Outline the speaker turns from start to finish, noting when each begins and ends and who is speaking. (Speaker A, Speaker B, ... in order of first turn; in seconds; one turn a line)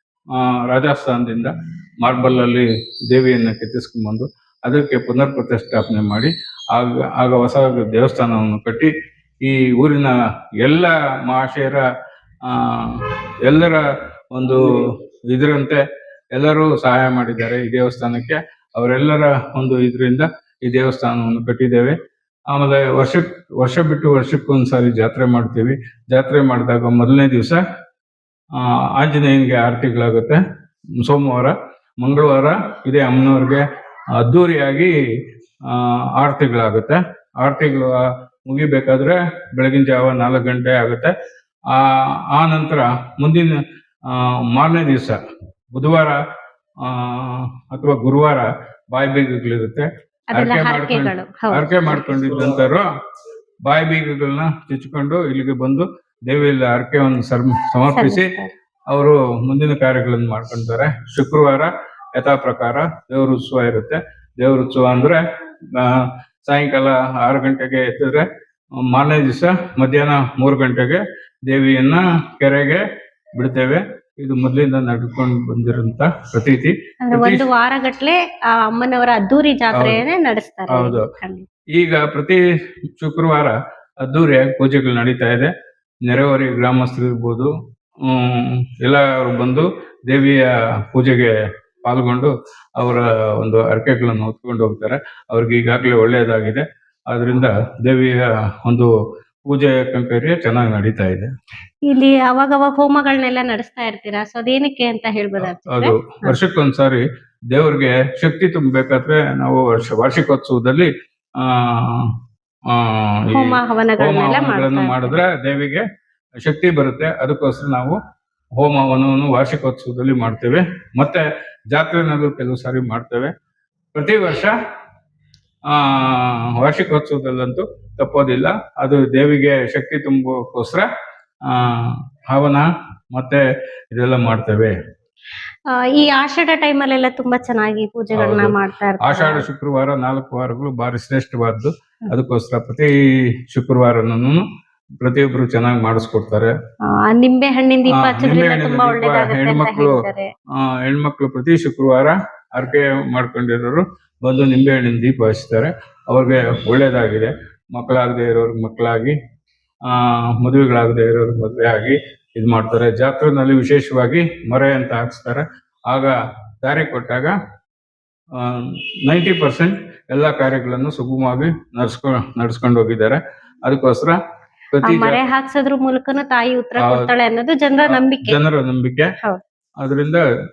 Speaker A: 0.4-8.9
Speaker A: 9.4-11.8
Speaker A: 12.5-13.8
Speaker A: 14.3-14.8
Speaker A: 15.3-15.8
Speaker A: 16.3-21.9
Speaker A: 22.5-27.6
Speaker A: 28.6-30.4
Speaker A: 31.0-33.6
Speaker A: 34.2-34.9
Speaker A: 35.7-41.1
Speaker A: 41.7-43.5
Speaker A: 44.1-45.2
Speaker A: 45.7-46.2
Speaker A: 46.8-52.8
Speaker B: 50.3-52.2
Speaker A: 53.7-58.3
Speaker B: 57.9-58.5
Speaker A: 58.9-65.2
Speaker A: 65.8-68.2
Speaker A: 68.8-72.8
Speaker A: 73.4-77.5
Speaker B: 77.0-81.5
Speaker A: 79.8-80.0
Speaker A: 80.7-81.0
Speaker A: 81.8-82.4
Speaker A: 83.0-85.5
Speaker A: 86.0-87.5
Speaker A: 88.1-91.3
Speaker A: 91.8-98.9
Speaker A: 99.5-101.3
Speaker B: 101.9-106.3
Speaker A: 105.7-110.9
Speaker A: 111.6-112.0
Speaker A: 112.8-115.8
Speaker B: 113.3-115.2
Speaker A: 116.4-118.0
Speaker A: 118.6-123.3
Speaker A: 123.9-124.5
Speaker A: 125.7-130.8
Speaker A: 131.5-134.7
Speaker B: 135.7-139.4
Speaker A: 138.1-142.9
Speaker A: 143.5-144.4
Speaker A: 145.0-146.5
Speaker B: 146.9-150.3
Speaker A: 147.9-150.0
Speaker A: 150.6-159.1
Speaker A: 159.9-167.3
Speaker A: 168.4-174.1
Speaker A: 174.7-175.2
Speaker B: 174.8-178.4
Speaker A: 176.8-177.1
Speaker A: 177.9-179.1
Speaker A: 179.8-180.2